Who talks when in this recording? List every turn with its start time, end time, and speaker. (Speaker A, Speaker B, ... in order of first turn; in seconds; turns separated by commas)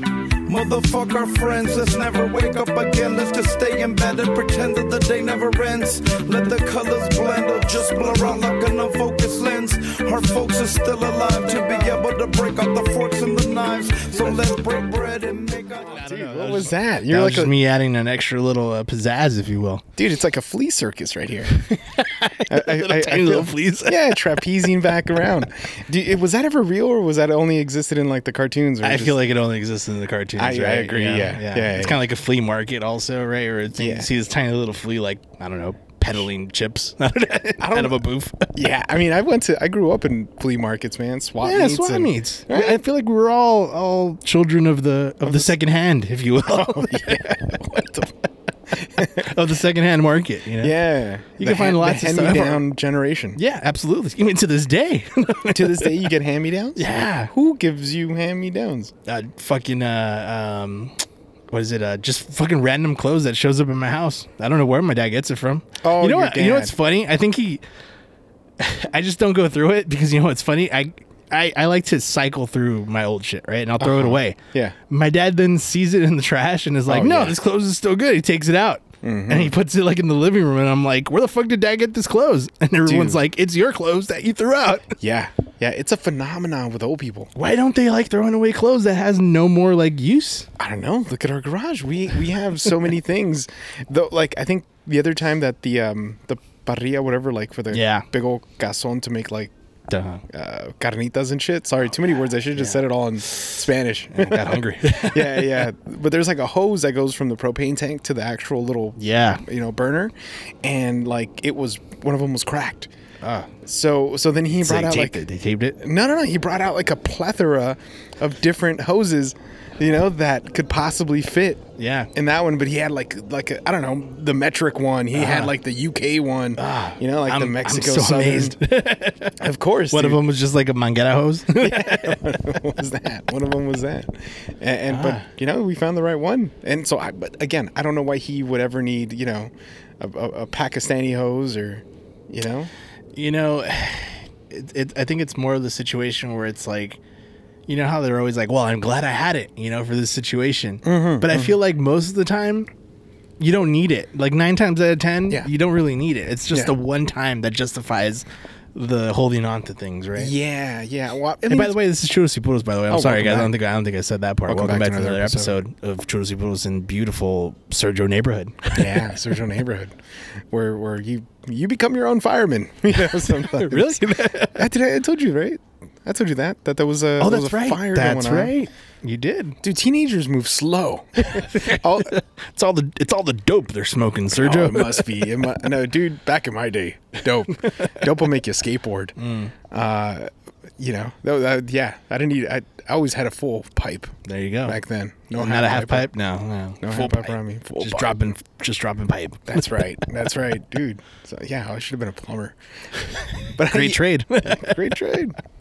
Speaker A: 0.5-16.0, Speaker B: 15.8-19.9, Speaker C: 16.0-17.5, Speaker C: 20.0-21.7, Speaker B: 21.7-24.0, Speaker C: 22.5-29.2, Speaker B: 28.8-38.5, Speaker C: 30.4-32.0, Speaker C: 33.7-34.1, Speaker C: 37.6-38.0, Speaker C: 38.5-42.8, Speaker B: 41.4-47.5, Speaker C: 45.2-45.5, Speaker C: 46.5-48.1, Speaker C: 48.7-49.3, Speaker B: 49.0-50.8, Speaker C: 50.6-53.4, Speaker B: 51.4-52.6, Speaker B: 53.4-56.0, Speaker C: 55.5-58.9, Speaker B: 56.8-57.3, Speaker B: 59.0-67.6, Speaker C: 65.8-66.8, Speaker B: 68.6-84.9, Speaker C: 73.8-74.8, Speaker C: 76.9-77.4, Speaker C: 79.0-79.5, Speaker C: 82.9-83.2, Speaker C: 85.0-87.3, Speaker B: 87.3-90.5, Speaker C: 90.6-99.5, Speaker B: 97.7-98.0, Speaker B: 99.9-100.2, Speaker C: 100.3-112.9, Speaker B: 104.1-105.7, Speaker B: 109.0-109.4, Speaker B: 113.2-113.5, Speaker C: 113.6-115.2, Speaker B: 114.5-115.8, Speaker C: 115.8-128.6, Speaker B: 121.8-122.1, Speaker B: 125.1-125.5, Speaker B: 126.5-132.2, Speaker C: 129.4-130.2, Speaker C: 131.6-142.7, Speaker B: 134.9-135.3, Speaker B: 143.1-147.0, Speaker B: 147.7-152.7, Speaker C: 150.8-151.6, Speaker B: 153.4-160.3, Speaker C: 160.2-161.8, Speaker B: 161.5-169.1, Speaker C: 162.9-163.5, Speaker C: 164.5-165.5, Speaker C: 168.8-169.9, Speaker C: 170.5-178.5, Speaker B: 173.0-174.6, Speaker B: 177.2-179.6, Speaker C: 179.6-182.1, Speaker B: 181.3-185.2, Speaker C: 184.3-189.2, Speaker B: 189.2-189.5, Speaker C: 189.7-194.1, Speaker B: 194.2-194.8, Speaker C: 194.6-196.1, Speaker B: 195.4-200.0, Speaker C: 196.8-198.3, Speaker C: 199.5-202.6, Speaker C: 203.4-205.3, Speaker B: 203.6-204.9